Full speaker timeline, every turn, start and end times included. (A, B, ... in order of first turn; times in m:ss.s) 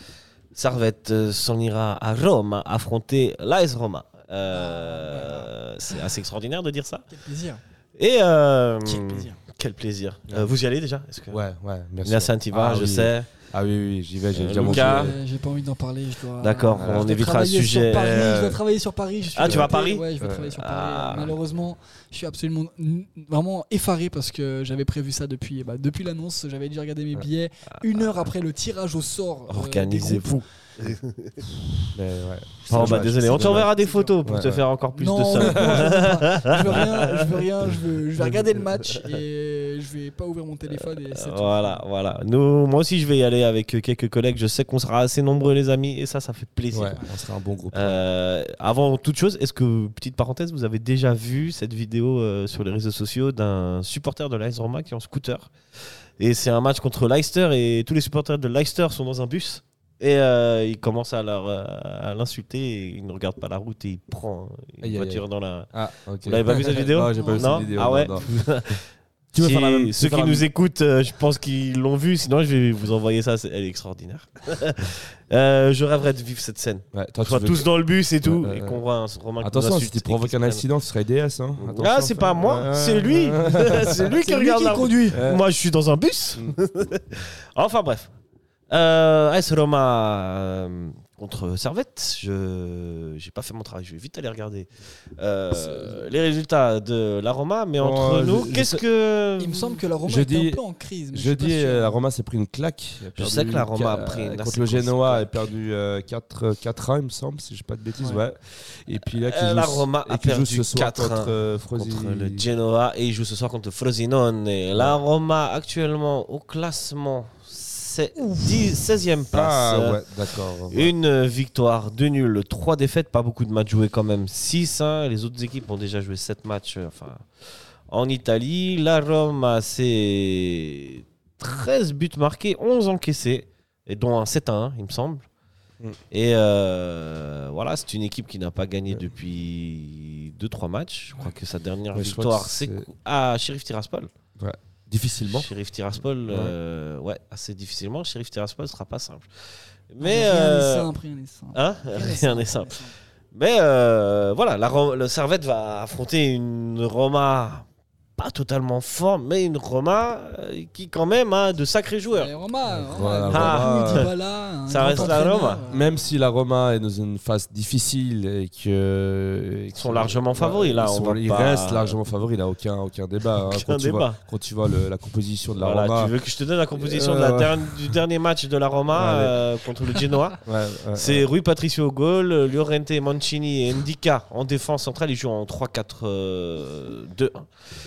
0:00.5-0:07.0 A
0:04.5-0:06.1 B
0:07.1-0:07.6 B
0:08.0-0:11.4 A
0:08.8-0:09.4 B
0:11.3-0:15.2 C
0:12.0-0:13.3 A
0:14.3-0:15.2 A
0:14.6-0:30.4 B
0:16.4-0:18.3 A
0:16.8-0:17.2 C
0:17.9-0:18.6 C
0:19.4-0:21.3 A
0:19.4-0:20.5 C
0:27.9-0:28.2 A
0:29.5-0:31.4 A
0:31.9-0:33.7 C
0:32.7-0:37.5 A
0:32.7-0:34.2 B
0:34.2-0:34.6 C
0:34.9-0:41.8 B
0:35.4-0:35.9 C
0:38.2-0:38.6 C
0:40.7-0:47.1 A
0:46.7-0:48.0 C
0:47.7-0:55.5 A
0:56.2-1:05.7 A
1:04.8-1:08.2 C
1:06.2-1:08.8 A
1:07.1-1:08.1 B
1:09.3-1:10.5 C
1:09.4-1:20.6 A
1:16.9-1:17.7 C
1:18.2-1:18.8 C
1:19.4-1:24.2 C
1:21.6-1:28.1 A
1:23.8-1:25.2 B
1:25.1-1:25.4 C
1:28.7-1:39.8 A
1:35.5-1:36.0 C
1:37.8-1:38.8 C
1:39.4-1:42.0 B
1:40.0-1:40.6 C
1:41.1-1:52.4 C
1:43.2-1:45.4 A
1:49.2-2:07.2 A
1:54.7-1:55.0 C
1:59.3-2:00.9 C
2:07.9-2:15.2 A
2:16.1-2:24.1 A
2:21.9-2:22.9 C
2:24.4-2:25.5 C
2:25.3-2:29.3 A
2:26.3-2:26.5 C
2:29.9-2:30.9 A
2:30.0-2:32.9 B
2:31.5-2:32.8 A
2:33.3-2:37.6 A
2:38.2-2:42.3 A
2:42.1-2:46.0 B
2:42.9-2:44.1 C
2:43.3-2:44.1 A
2:44.7-2:45.6 A
2:44.9-2:56.1 C
2:49.7-2:52.0 A
2:53.4-2:54.2 A
2:55.6-3:00.4 A
2:56.7-2:57.9 C
2:58.9-2:59.4 C
3:00.4-3:01.3 C
3:00.9-3:07.5 A